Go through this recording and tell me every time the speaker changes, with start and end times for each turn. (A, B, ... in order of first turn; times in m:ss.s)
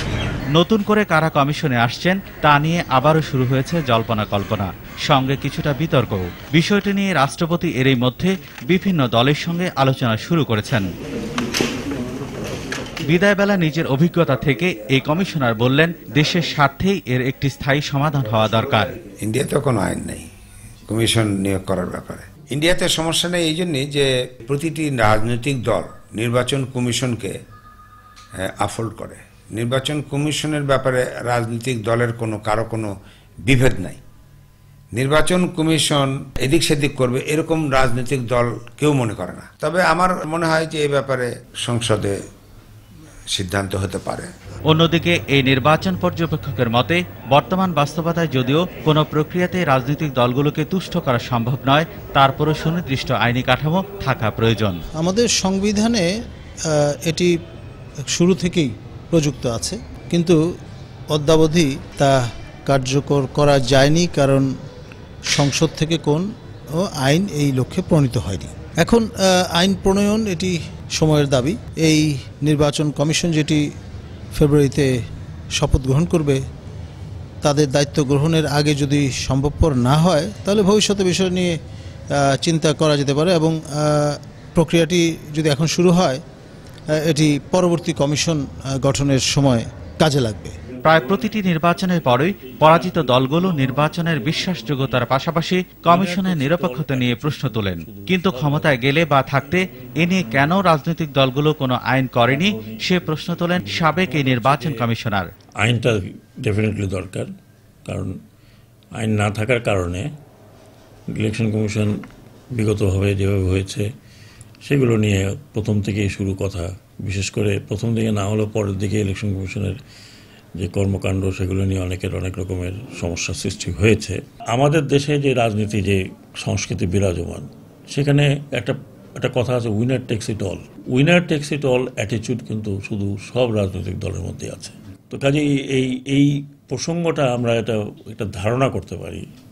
0:00.5-0:10.9 A
0:13.0-0:18.9 A
0:19.0-0:20.3 B
0:20.9-0:27.4 B
0:28.4-0:32.9 B
0:33.4-0:34.0 B
0:34.9-0:42.2 B
0:43.3-0:44.3 B
0:44.7-0:54.8 A
0:55.0-0:56.0 C
0:56.7-0:57.3 C
0:58.1-1:00.4 C
1:01.1-1:04.5 C
1:05.3-1:06.2 C
1:06.8-1:13.6 C
1:14.3-1:14.9 C
1:15.6-1:16.4 C
1:17.4-1:21.5 C
1:22.2-1:26.2 C
1:27.0-1:30.5 C
1:30.8-1:45.3 A
1:30.9-1:31.3 D
1:32.1-1:35.0 D
1:35.8-1:40.2 D
1:42.3-1:44.9 D
1:45.6-1:47.3 D
1:47.8-1:48.1 D
1:49.0-1:50.1 D
1:51.1-1:51.9 D
1:52.5-1:53.9 D
1:54.6-1:59.8 D
2:00.6-2:19.2 D